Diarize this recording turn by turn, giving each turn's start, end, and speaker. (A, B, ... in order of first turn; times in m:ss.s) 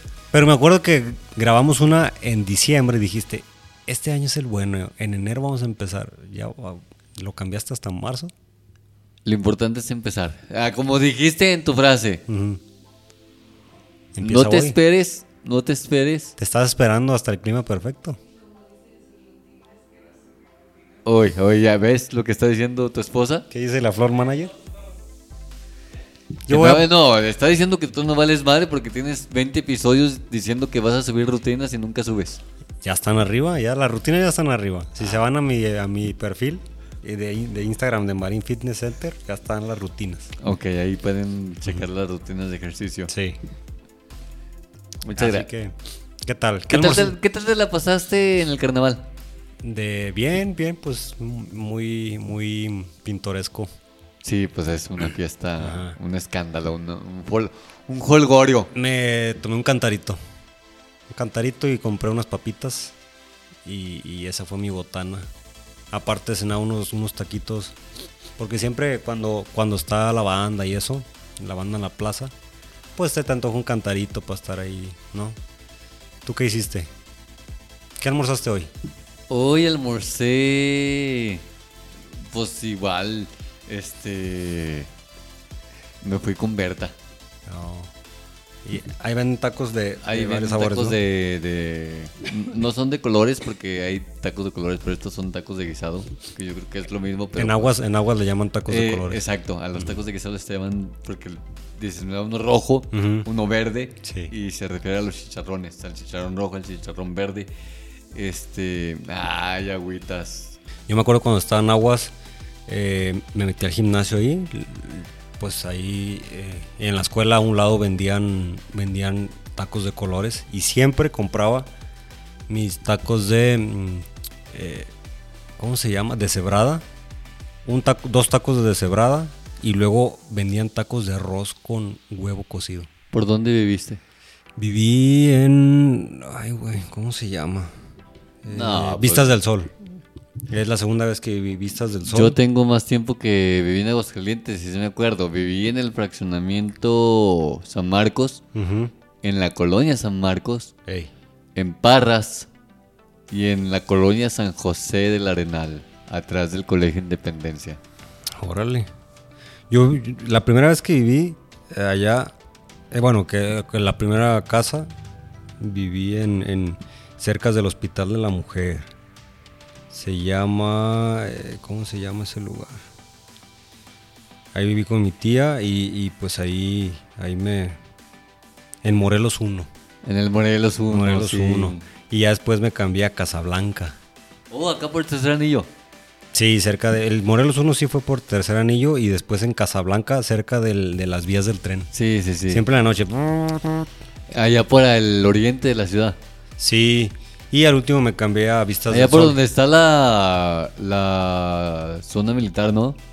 0:00.3-0:08.3 A
0:09.2-0:12.2 B
0:12.3-0:12.6 A
0:14.1-0:14.8 A
0:14.2-0:16.3 B
0:16.4-0:18.2 A
0:21.0-0:23.4 B
0:23.5-0:24.5 A
0:26.5-0:26.9 A
0:26.5-0:32.4 B
0:32.8-0:40.3 A
0:40.4-0:43.1 B
0:43.1-0:43.4 A
0:45.0-0:45.5 B
0:45.1-0:47.1 A
0:46.7-0:49.1 B
0:49.6-0:53.7 A
0:54.2-0:58.7 B
0:55.6-0:56.0 A
0:58.7-1:00.2 A
1:01.1-1:02.9 A
1:03.6-1:05.3 A
1:05.9-1:07.8 A
1:08.4-1:12.3 A
1:13.0-1:15.4 A
1:16.2-1:16.9 A
1:18.0-1:18.7 A
1:19.3-1:21.4 B
1:22.3-1:24.9 B
1:26.0-1:26.9 B
1:27.5-1:27.9 A
1:28.6-1:31.0 A
1:30.0-1:37.7 B
1:37.4-1:39.2 A
1:38.7-1:47.5 B
1:42.9-1:43.3 A
1:44.0-1:44.3 A
1:48.1-1:50.6 B
1:50.9-1:52.1 A
1:52.7-2:01.7 A
2:02.5-2:04.9 A
2:05.6-2:06.8 A
2:07.6-2:12.9 A
2:13.1-2:14.0 B
2:14.6-2:17.8 A
2:18.4-2:19.7 A
2:18.5-2:19.3 B
2:20.5-2:22.4 A
2:22.1-2:28.4 B
2:28.5-2:28.9 A
2:29.2-2:30.7 B
2:31.6-2:32.5 B
2:33.3-2:37.8 B
2:38.4-2:38.9 A
2:39.7-2:42.3 A
2:42.9-2:44.9 A
2:45.6-2:48.9 A
2:49.9-2:52.8 A
2:54.5-2:57.8 A
2:58.8-2:59.7 A
3:00.0-3:01.8 B
3:00.9-3:04.0 A
3:04.5-3:05.7 B
3:06.3-3:11.9 A
3:11.9-3:12.6 B
3:12.5-3:13.9 A
3:14.3-3:16.2 B
3:16.6-3:19.4 A
3:18.9-3:23.0 B